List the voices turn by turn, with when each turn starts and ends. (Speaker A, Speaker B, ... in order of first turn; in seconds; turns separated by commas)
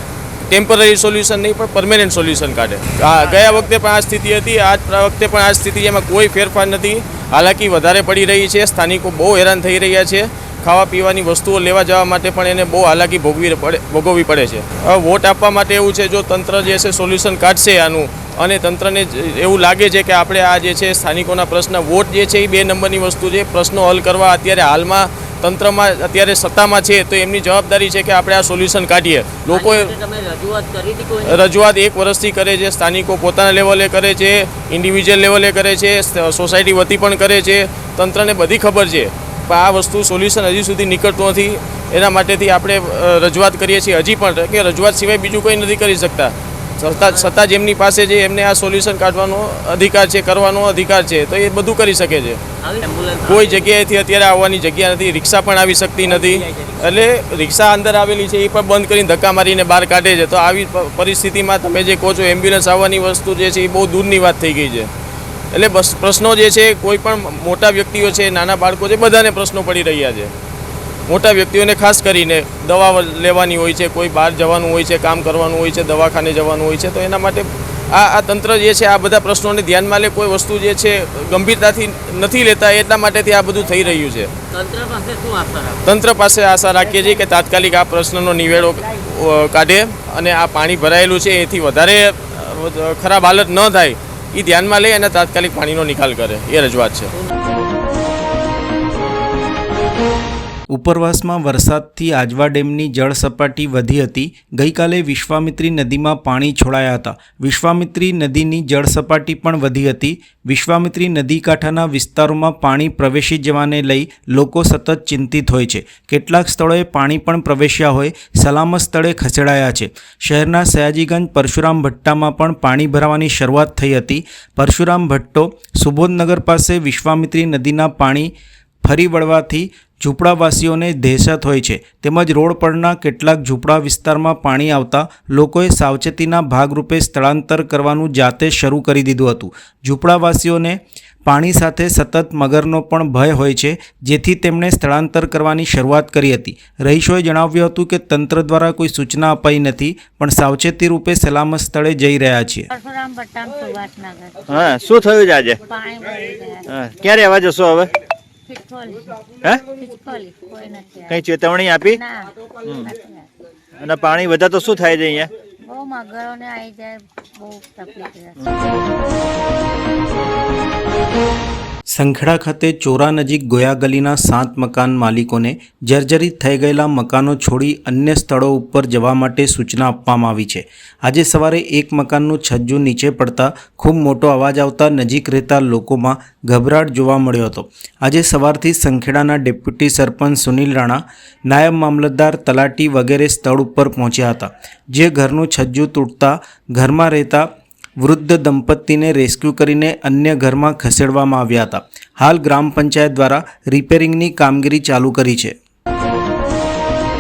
Speaker A: 0.5-29.9, Speaker B: 29.5-31.4, Speaker A: 31.3-52.4, Speaker B: 47.0-47.3, Speaker B: 52.6-53.7, Speaker A: 53.3-64.9, Speaker B: 56.0-56.9, Speaker A: 65.5-70.3, Speaker A: 71.1-84.3, Speaker B: 84.5-85.8, Speaker A: 85.8-97.1, Speaker B: 86.8-87.4, Speaker C: 100.7-152.7, Speaker D: 152.8-154.3, Speaker E: 154.5-155.6, Speaker D: 155.7-156.6, Speaker E: 156.7-157.9, Speaker D: 158.5-159.0, Speaker D: 159.8-161.1, Speaker E: 161.1-162.0, Speaker E: 162.7-162.9, Speaker D: 162.9-163.3, Speaker E: 163.8-165.3, Speaker D: 165.7-168.3, Speaker C: 171.9-197.5, Speaker C: 198.0-205.6